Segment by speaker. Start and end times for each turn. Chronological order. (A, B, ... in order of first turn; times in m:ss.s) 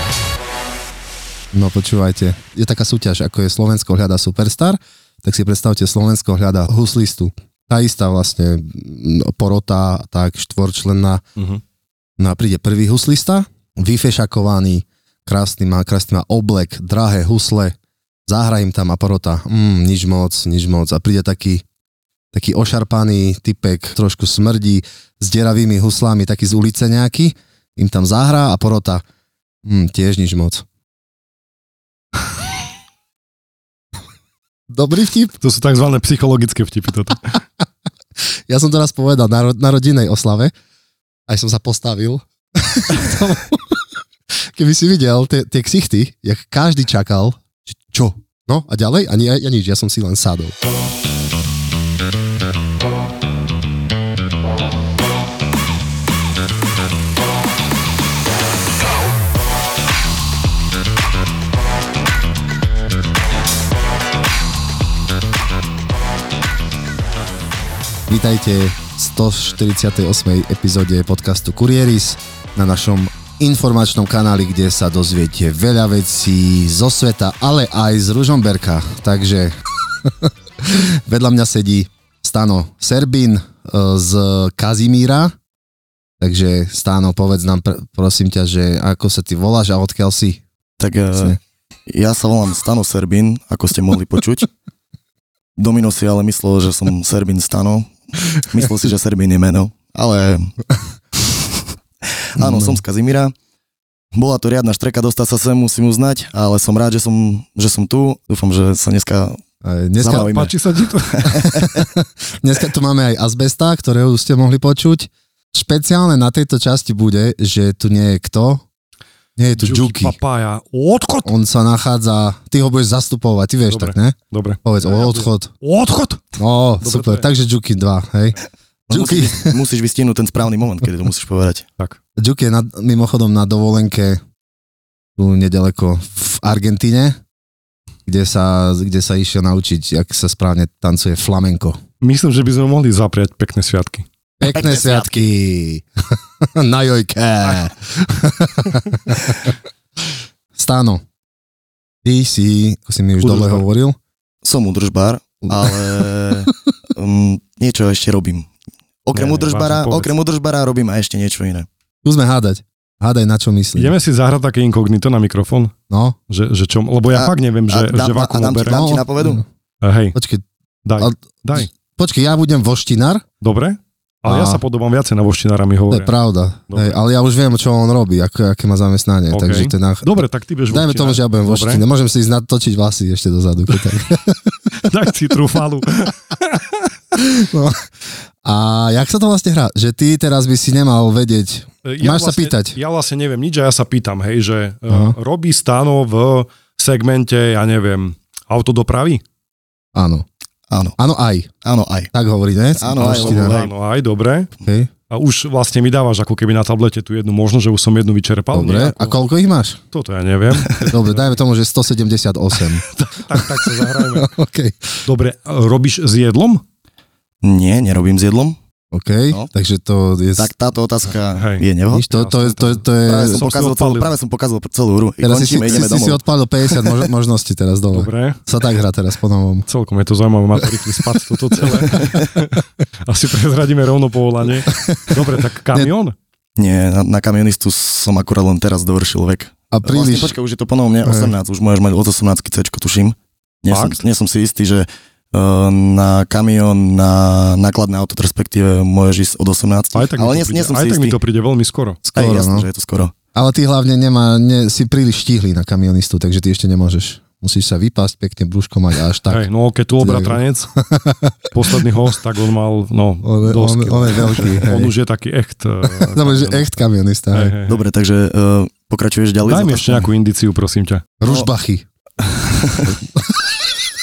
0:01.5-0:11.2 A
0:12.2-0:17.8 A
0:18.3-0:21.6 A
0:22.3-0:29.0 A
0:29.6-0:30.6 A
0:34.7-0:35.4 A
0:35.4-0:37.3 B
0:38.5-0:40.5 A
0:41.3-0:43.8 A
0:44.5-0:50.5 A
1:08.1-1:25.3 A
1:26.2-1:30.4 A
1:30.8-1:31.4 C
1:31.9-1:34.5 C
1:35.6-1:40.5 C
1:42.3-1:43.3 C
1:42.4-1:42.8 A
1:44.1-1:49.4 C
1:49.6-1:50.3 A
1:50.0-1:51.9 C
1:50.0-1:51.4 B
1:51.3-1:58.6 A
1:59.4-2:00.2 A
1:59.6-2:01.3 B
2:01.2-2:05.5 A
2:03.7-2:07.2 B
2:06.4-2:08.4 A
2:08.9-2:11.6 C
2:08.9-2:09.6 A
2:12.2-2:14.2 A
2:15.2-2:17.2 A
2:18.0-2:21.8 A
2:22.0-2:24.0 B
2:24.4-2:29.5 A
2:24.4-2:25.2 C
2:30.5-2:31.0 A
2:32.0-2:34.0 A
2:33.2-2:33.6 B
2:34.4-2:38.5 C
2:35.5-2:36.0 A
2:39.0-2:41.7 C
2:39.1-2:40.1 B
2:42.0-2:43.9 A
2:43.8-2:45.7 B
2:45.9-2:46.2 A
2:46.3-2:48.8 B
2:47.1-2:49.4 C
2:48.7-2:49.4 A
2:49.8-2:50.2 B
2:50.1-2:50.4 A
2:50.8-2:51.7 B
2:51.0-2:53.2 A
2:53.4-2:56.1 B
2:54.2-2:54.6 A
2:55.9-3:00.1 A
2:56.7-2:57.0 B
2:59.3-3:01.8 B
3:00.7-3:04.7 A
3:04.8-3:06.8 B
3:07.1-3:07.9 A
3:08.4-3:12.8 A
3:11.8-3:19.2 B
3:14.9-3:15.1 A
3:19.9-3:20.2 A
3:20.7-3:21.0 C
3:21.0-3:21.5 A
3:21.6-3:22.1 C
3:22.1-3:23.6 A
3:22.8-3:23.7 C
3:23.0-3:24.5 B
3:24.6-3:24.9 A
3:25.1-3:29.2 B
3:28.5-3:29.8 A
3:29.9-3:31.2 B
3:30.8-3:35.0 A
3:32.8-3:34.3 B
3:35.0-3:36.6 B
3:37.4-3:38.6 C
3:38.9-3:40.5 A
3:40.4-3:42.1 C
3:41.4-3:44.1 B
3:41.9-3:43.4 A
3:43.0-3:46.2 C
3:45.2-3:49.7 A
3:47.9-3:48.4 B
3:49.7-3:56.1 B
3:54.7-3:55.1 A
3:56.6-4:11.2 C
3:59.7-4:00.3 A
4:01.0-4:01.3 A
4:03.7-4:04.0 B
4:09.9-4:12.0 B
4:12.1-4:13.1 C
4:12.1-4:12.7 A
4:13.3-4:19.4 A
4:19.3-4:20.7 B
4:20.0-4:21.8 A
4:21.5-4:26.7 B
4:23.2-4:24.9 A
4:25.9-4:27.6 A
4:27.3-4:27.8 B
4:27.7-4:30.1 C
4:29.4-4:31.0 B
4:31.2-4:31.8 A
4:32.2-4:33.0 C
4:33.2-4:33.5 A